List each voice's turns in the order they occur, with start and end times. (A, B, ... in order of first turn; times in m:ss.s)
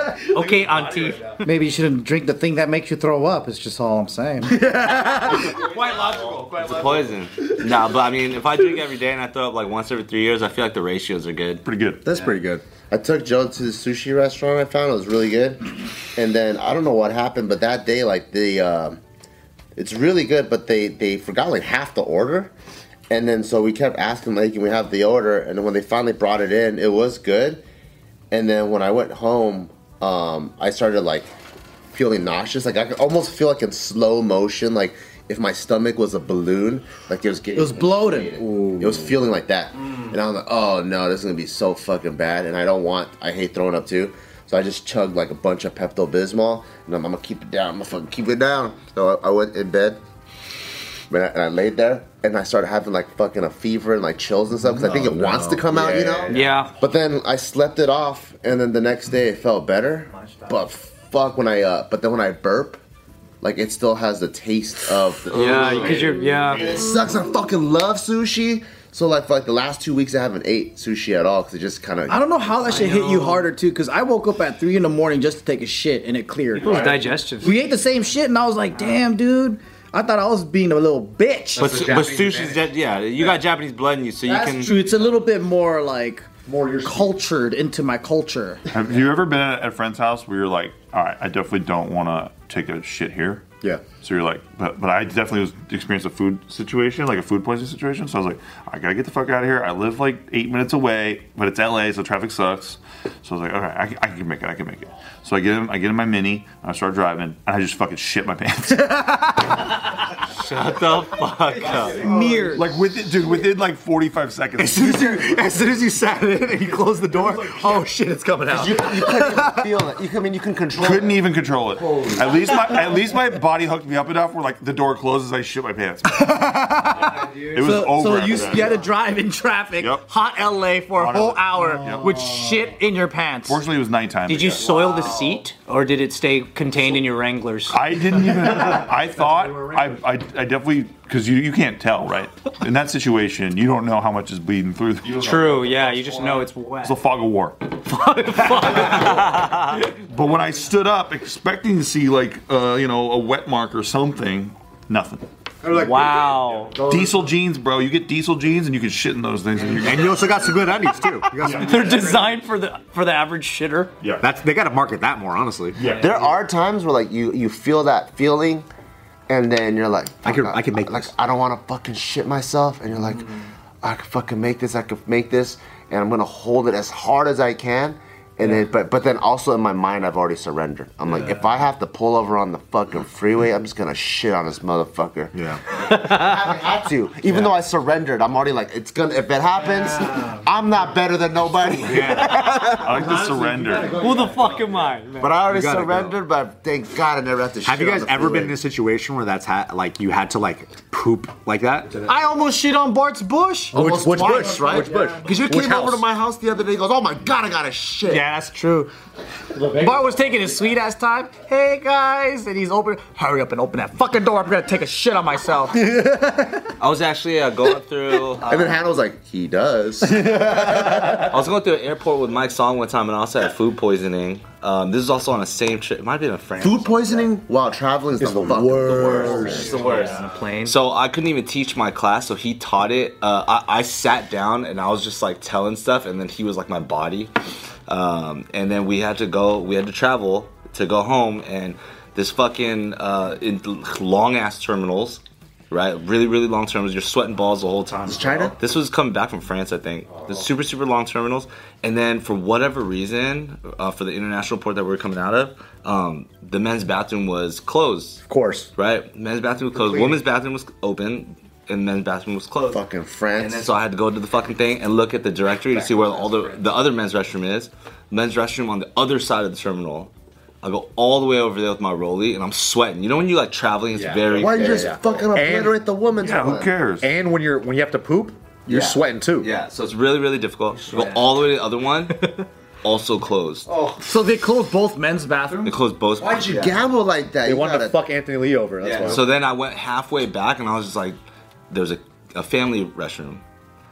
0:00.3-0:01.3 A
0:00.6-0:01.2 B
0:01.4-0:05.6 C
0:05.7-0:07.0 D
0:06.4-0:11.6 E
0:11.6-0:12.0 B
0:12.0-0:12.6 D
0:12.9-0:19.0 F
0:19.8-0:22.5 F
0:23.1-0:27.6 F
0:28.3-0:31.3 F
0:31.9-0:50.0 F
0:37.5-0:39.1 C
0:51.1-1:02.8 F
0:54.6-0:55.7 D
0:55.8-0:56.4 E
0:56.3-0:56.8 A
1:03.4-1:12.2 F
1:05.3-1:06.8 A
1:12.1-1:16.8 C
1:12.6-1:13.5 A
1:16.6-1:17.6 A
1:16.7-1:17.0 D
1:17.4-1:21.7 C
1:21.6-1:22.7 D
1:21.6-1:24.8 E
1:24.2-1:28.6 C
1:26.5-1:27.1 D
1:28.7-1:49.0 B
1:49.2-1:49.5 C
1:50.4-1:52.0 E
1:51.7-1:53.7 D
1:51.8-1:55.2 B
1:52.2-1:52.6 C
1:54.6-1:59.6 D
1:58.5-2:01.2 F
2:00.8-2:06.3 B
2:06.1-2:13.6 C
2:07.4-2:08.8 B
2:09.8-2:10.1 B
2:11.0-2:12.2 B
2:13.5-2:14.7 B
2:14.3-2:17.8 A
2:17.7-2:27.6 B
2:25.1-2:27.0 A
2:27.8-2:29.4 A
2:28.8-2:29.4 B
2:30.0-2:35.2 B
2:35.6-2:36.2 D
2:35.7-2:36.8 A
2:36.7-2:37.1 D
2:36.8-2:40.2 B
2:39.8-2:42.1 D
2:41.4-2:42.1 B
2:41.5-2:43.9 A
2:44.2-2:46.0 D
2:45.8-2:46.2 B
2:46.0-2:48.7 F
2:49.3-3:05.4 F
2:50.2-2:51.1 D
3:05.3-3:05.6 D
3:05.9-3:06.2 A
3:05.9-3:13.0 F
3:11.8-3:14.7 D
3:12.8-3:14.0 B
3:13.9-3:15.4 A
3:15.2-3:18.6 F
3:15.4-3:16.1 D
3:17.6-3:22.1 D
3:22.1-3:23.8 C
3:23.7-3:26.0 D
3:23.7-3:28.3 F
3:28.0-3:28.9 C
3:29.6-3:30.0 D
3:29.7-3:36.6 C
3:36.8-3:38.8 E
3:38.5-3:41.2 F
3:41.0-3:47.3 E
3:46.6-3:49.7 F
3:48.2-3:49.9 D
3:48.7-3:57.3 E
3:49.2-3:50.8 A
3:57.9-4:18.2 E
4:08.0-4:08.6 F
4:18.3-4:18.7 D
4:18.8-4:22.8 E
4:19.8-4:20.2 F
4:22.7-4:23.7 F
4:23.4-4:30.1 E
4:25.8-4:26.6 D
4:30.6-4:35.1 E
4:33.9-4:35.7 D
4:34.3-4:36.7 F
4:36.2-4:37.0 B
4:37.0-4:39.5 D
4:38.7-4:43.7 E
4:43.7-4:44.0 D
4:44.0-4:45.7 C
4:45.6-4:46.8 E
4:46.2-4:48.0 F
4:47.4-4:49.2 D
4:48.8-4:51.2 E
4:51.7-4:53.4 E